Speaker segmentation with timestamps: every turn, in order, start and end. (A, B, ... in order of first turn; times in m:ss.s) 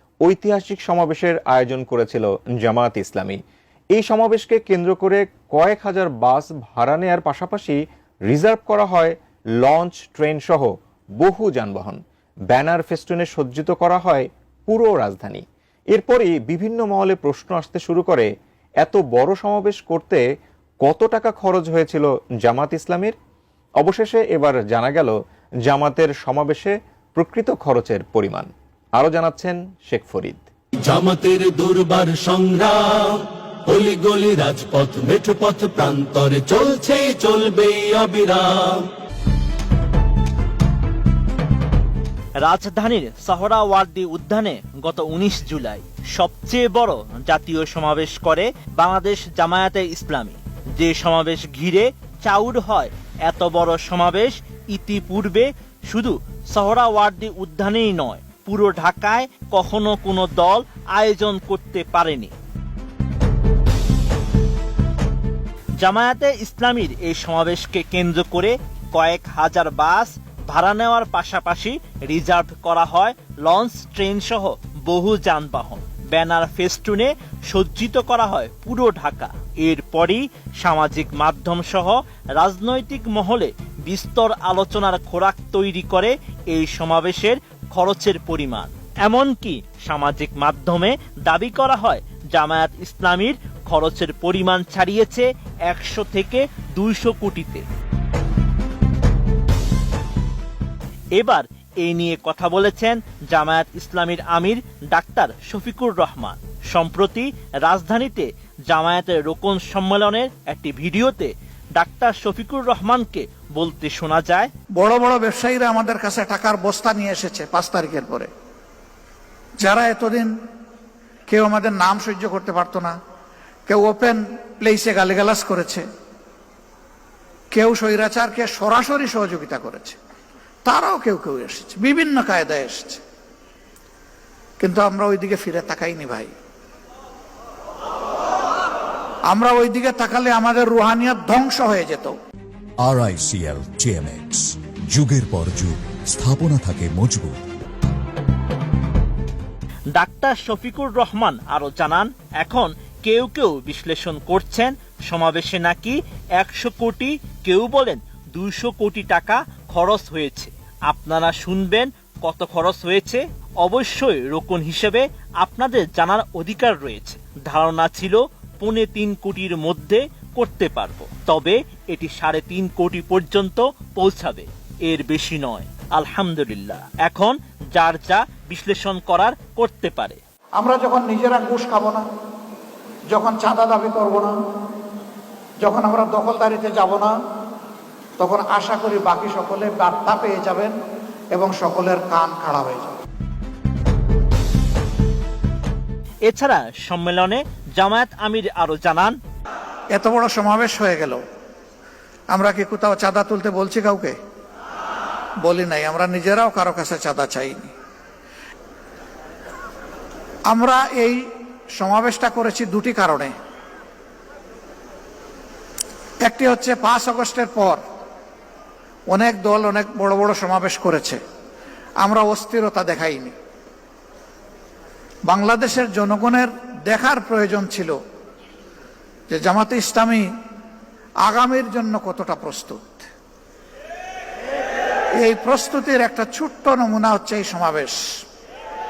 0:00.2-0:03.4 A
0:03.9-0:12.0 A
0:12.5-0:18.3 A
0:18.8-0:20.2 A
0:20.8-0:23.2 A
0:23.8-0:30.5 A
0:30.8-0:38.9 B
0:42.4-1:02.3 C
1:05.8-1:37.6 C
1:41.2-1:54.5 C
1:54.8-1:58.3 D
1:59.6-2:00.3 D
2:01.3-2:02.9 D
2:03.7-2:05.8 D
2:07.5-2:10.0 D
2:10.7-2:13.0 D
2:14.6-2:16.3 D
2:19.3-2:22.2 D
2:22.8-2:27.4 E
2:29.9-3:00.2 C
3:00.6-3:02.1 D
3:03.1-3:04.4 D
3:05.6-3:07.1 D
3:08.2-3:10.8 D
3:11.4-3:13.0 D
3:16.2-3:19.2 C
3:19.9-3:21.2 D
3:22.3-3:24.2 D
3:25.4-3:27.7 D
3:30.5-3:31.2 D
3:31.8-3:33.3 D
3:36.2-3:37.8 D
3:39.1-3:41.2 D
3:42.0-3:43.3 D
3:45.3-3:48.0 D
3:49.3-3:50.3 D
3:51.2-3:53.1 D
3:55.2-3:58.2 D